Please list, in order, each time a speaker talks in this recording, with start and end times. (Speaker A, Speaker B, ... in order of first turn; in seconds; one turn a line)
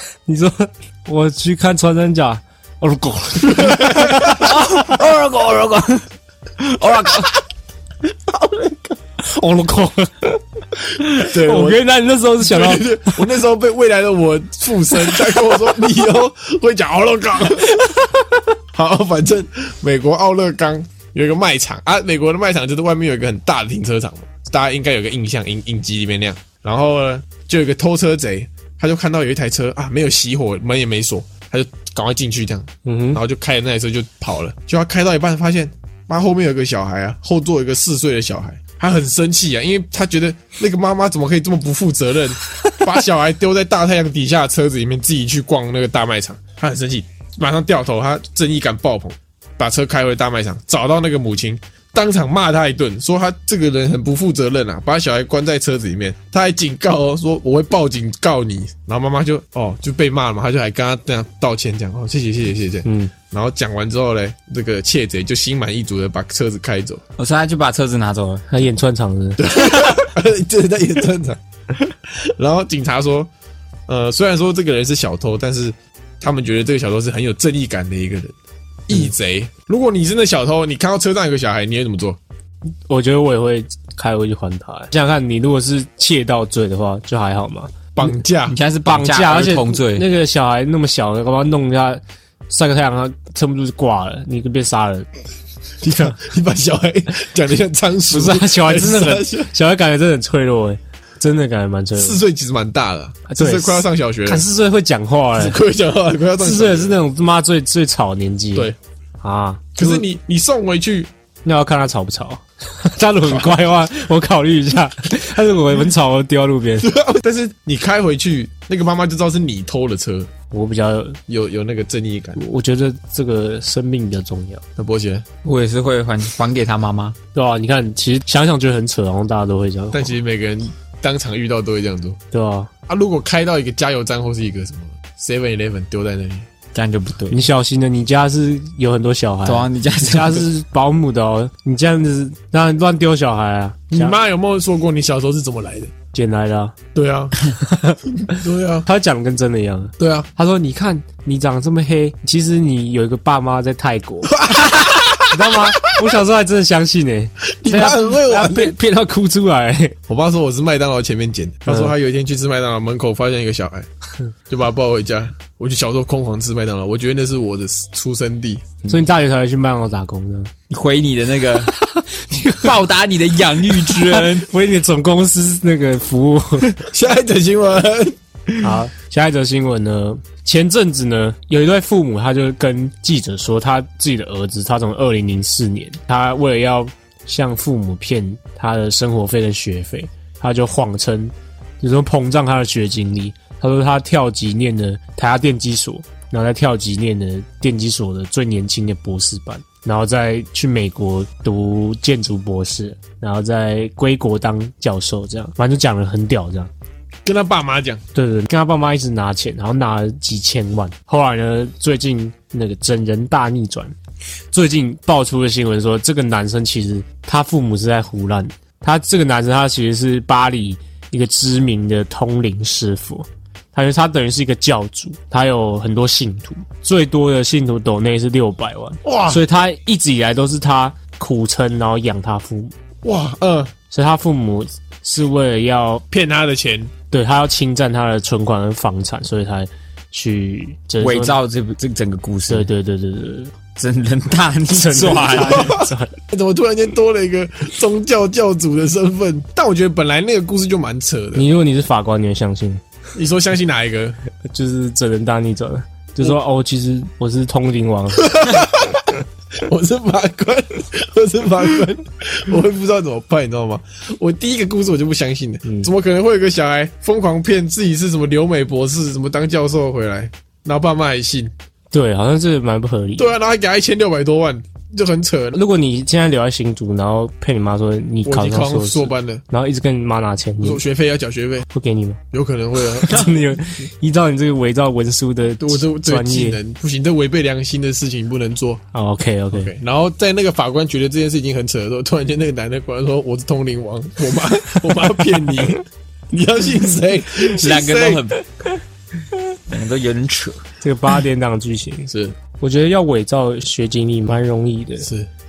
Speaker A: 0.3-5.0
Speaker B: 3.5-4.5
Speaker C: 4.3-6.0
Speaker C: 6.6-7.3
Speaker A: 9.2-13.2
Speaker B: 11.1-11.8
Speaker B: 12.4-17.9
Speaker A: 15.0-15.5
Speaker A: 17.6-18.3
Speaker B: 18.7-67.0
Speaker A: 32.9-33.2
Speaker A: 62.9-63.1
Speaker C: 67.2-68.5
Speaker A: 68.5-69.9
Speaker B: 69.4-73.3
Speaker B: 73.9-78.3
Speaker B: 78.9-82.2
Speaker A: 82.9-87.7
Speaker B: 88.0-88.6
Speaker C: 88.5-90.1
Speaker A: 88.9-95.1
Speaker B: 95.8-99.5
Speaker A: 98.1-102.2
Speaker B: 102.0-104.4
Speaker A: 103.3-105.6
Speaker B: 105.4-107.0
Speaker A: 106.4-110.0
Speaker B: 109.8-111.1
Speaker A: 111.5-116.9
Speaker B: 113.3-113.5
Speaker B: 116.8-120.3
Speaker A: 120.5-121.2
Speaker B: 121.3-122.4
Speaker A: 122.4-124.6
Speaker B: 124.8-125.2
Speaker C: 125.4-127.2
Speaker A: 127.3-130.2
Speaker B: 129.9-132.2
Speaker A: 132.3-132.7
Speaker B: 132.9-136.5
Speaker C: 136.7-137.4
Speaker A: 137.3-144.2
Speaker C: 139.4-140.5
Speaker B: 143.9-145.9
Speaker A: 146.1-146.8
Speaker B: 146.9-147.5
Speaker A: 147.6-148.3
Speaker B: 148.2-148.9
Speaker A: 148.9-160.0
Speaker B: 150.0-150.3
Speaker B: 154.2-156.1
Speaker B: 157.6-158.8
Speaker B: 160.1-163.9
Speaker A: 161.7-161.9
Speaker B: 164.5-168.8
Speaker A: 168.8-170.5
Speaker C: 170.7-171.7
Speaker A: 171.6-172.7
Speaker C: 172.6-174.5
Speaker A: 173.7-176.7
Speaker B: 176.8-178.6
Speaker A: 178.6-206.7
Speaker B: 207.2-208.0
Speaker A: 208.2-213.9
Speaker A: 214.5-232.7
Speaker B: 229.0-229.4
Speaker B: 233.0-233.7
Speaker A: 233.9-236.0
Speaker B: 236.1-236.9
Speaker A: 237.1-241.4
Speaker C: 241.0-242.7
Speaker A: 242.5-243.5
Speaker C: 243.8-245.7
Speaker A: 244.7-246.1
Speaker B: 245.3-251.5
Speaker A: 251.3-252.8
Speaker B: 253.2-254.2
Speaker A: 254.5-258.6
Speaker B: 258.2-271.5
Speaker A: 265.6-265.9
Speaker A: 271.9-273.3
Speaker B: 273.2-275.6
Speaker A: 275.5-280.8
Speaker B: 278.2-279.4
Speaker B: 280.6-281.7
Speaker A: 281.7-282.2
Speaker B: 282.3-283.4
Speaker A: 283.0-286.6
Speaker B: 285.6-288.8
Speaker A: 288.9-289.7
Speaker B: 289.5-298.3
Speaker C: 297.6-298.4
Speaker C: 299.7-300.6
Speaker A: 300.8-305.1